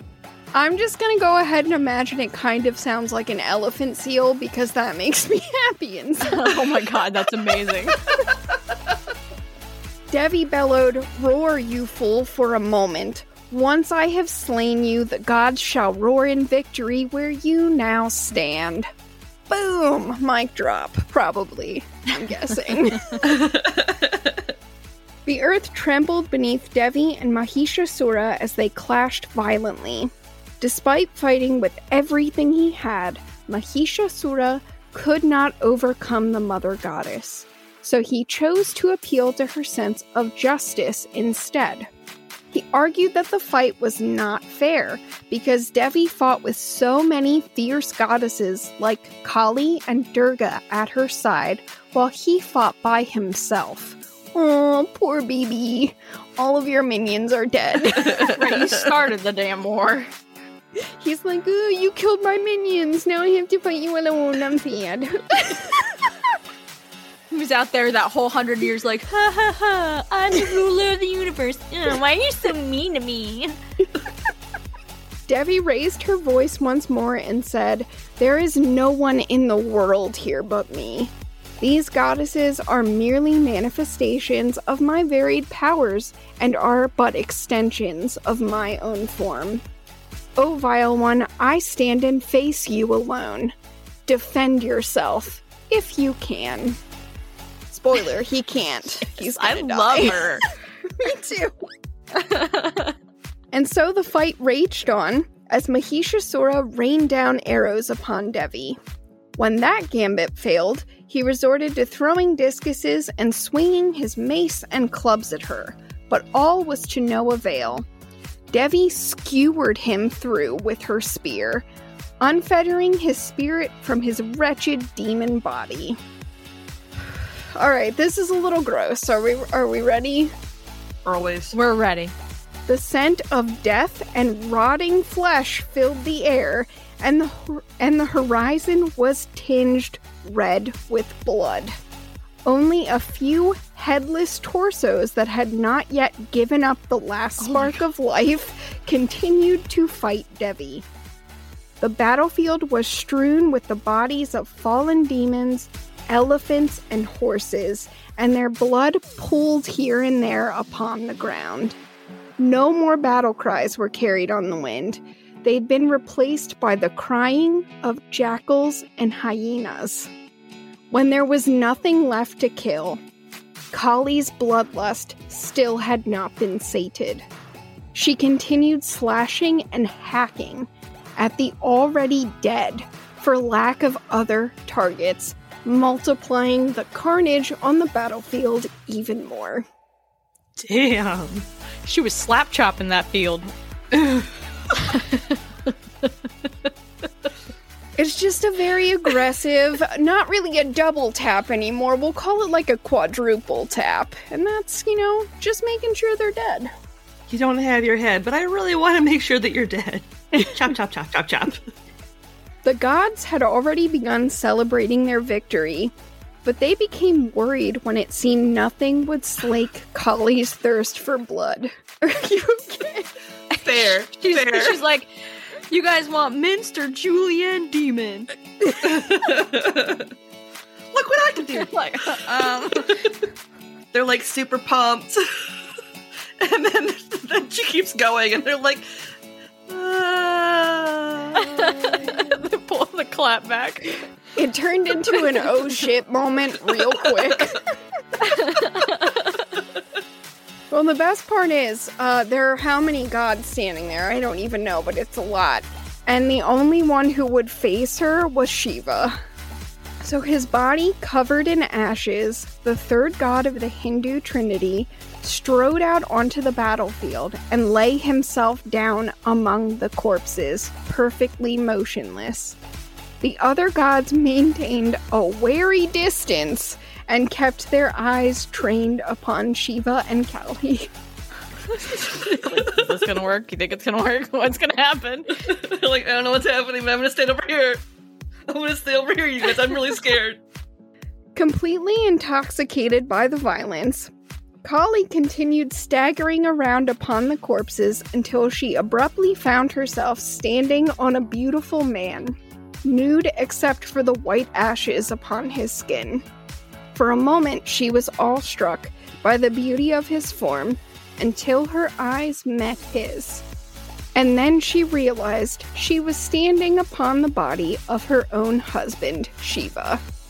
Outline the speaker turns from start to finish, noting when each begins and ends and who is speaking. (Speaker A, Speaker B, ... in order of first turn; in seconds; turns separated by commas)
Speaker A: 0.5-6.8, Speaker B: 6.2-8.0, Speaker A: 10.1-18.9, Speaker A: 19.5-23.2, Speaker C: 23.2-24.5, Speaker A: 25.3-41.9, Speaker A: 42.5-58.3, Speaker B: 58.1-60.1, Speaker A: 61.0-66.0, Speaker B: 67.3-73.5, Speaker A: 75.3-89.6, Speaker A: 90.4-93.5, Speaker A: 94.1-96.8, Speaker A: 97.7-100.3, Speaker B: 99.2-100.4, Speaker A: 101.0-101.5, Speaker B: 102.1-102.9, Speaker A: 103.5-108.8, Speaker A: 109.4-117.9, Speaker A: 118.5-121.6, Speaker A: 122.2-126.0, Speaker A: 127.5-130.3, Speaker C: 131.1-131.6, Speaker B: 131.5-132.1, Speaker A: 132.7-141.7, Speaker A: 142.4-150.8, Speaker B: 147.4-147.8, Speaker A: 151.8-161.8, Speaker A: 162.4-170.1, Speaker A: 170.9-173.0, Speaker A: 173.7-177.2, Speaker A: 177.9-189.7, Speaker C: 190.6-191.5, Speaker B: 191.9-193.5, Speaker C: 193.9-194.3, Speaker B: 194.7-195.4, Speaker A: 198.0-206.7, Speaker C: 207.3-211.6, Speaker A: 212.6-215.9, Speaker A: 216.4-223.1, Speaker B: 223.5-225.1, Speaker C: 223.6-224.8, Speaker B: 225.7-228.9, Speaker C: 228.8-230.1, Speaker C: 230.9-233.1, Speaker B: 231.5-233.1, Speaker C: 233.9-235.4, Speaker C: 236.4-238.8, Speaker C: 239.7-242.2, Speaker B: 241.4-244.1, Speaker A: 244.4-247.6, Speaker B: 248.2-249.5, Speaker A: 250.7-259.2, Speaker A: 260.0-272.6, Speaker A: 273.2-280.9, Speaker B: 281.7-285.3, Speaker C: 285.5-287.8, Speaker C: 288.5-290.4, Speaker A: 291.4-294.1, Speaker A: 294.6-306.2, Speaker A: 306.9-313.4, Speaker A: 314.1-320.0